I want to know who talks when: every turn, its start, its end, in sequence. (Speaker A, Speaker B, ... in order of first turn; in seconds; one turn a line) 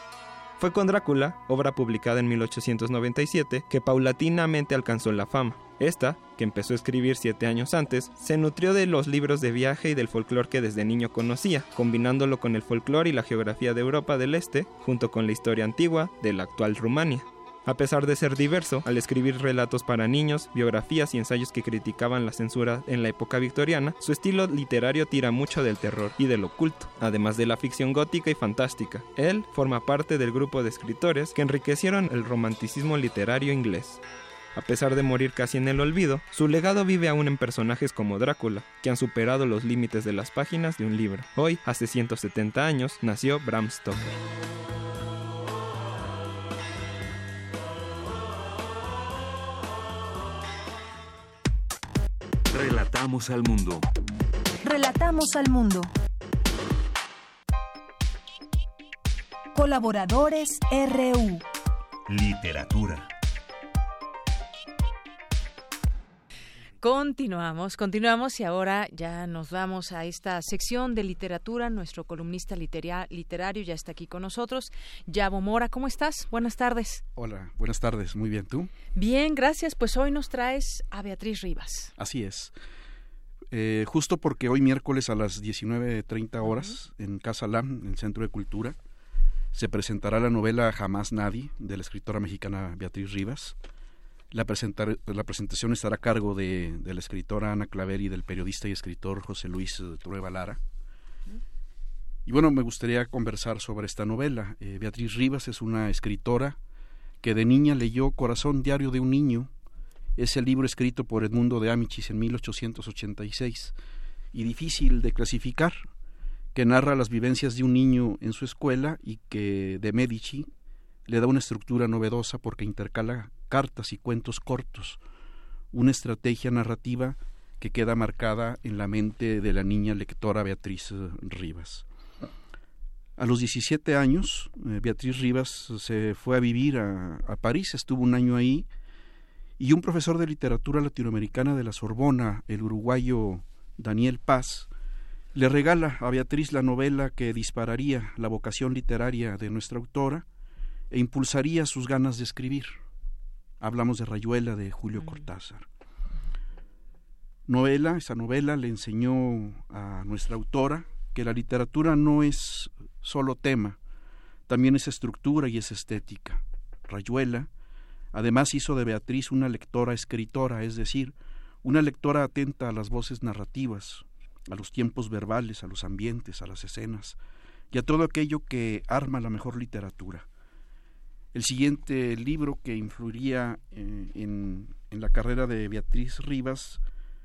Speaker A: 0.6-34.0
Speaker A: 34.5-44.1
Speaker B: 52.5-53.9
Speaker C: 54.6-55.9
Speaker C: 59.5-61.4
Speaker B: 62.1-63.1
Speaker D: 66.8-77.0
Speaker E: 77.2-78.7
Speaker D: 79.0-81.9
Speaker E: 82.0-82.5
Speaker E: 83.5-88.8
Speaker D: 86.4-86.8
Speaker E: 89.5-93.5
Speaker E: 94.3-100.6
Speaker E: 102.3-106.6
Speaker E: 107.2-109.5
Speaker E: 110.2-113.7
Speaker E: 114.3-115.8
Speaker E: 116.5-120.5
Speaker E: 121.1-125.0
Speaker E: 125.7-131.8
Speaker E: 133.2-138.7
Speaker E: 139.6-144.7
Speaker E: 145.3-150.2
Speaker E: 150.9-152.8
Speaker E: 153.6-155.7
Speaker D: 155.0-155.2
Speaker E: 157.5-163.8
Speaker E: 164.5-167.5
Speaker E: 168.1-177.2
Speaker E: 177.7-180.3
Speaker E: 181.3-186.8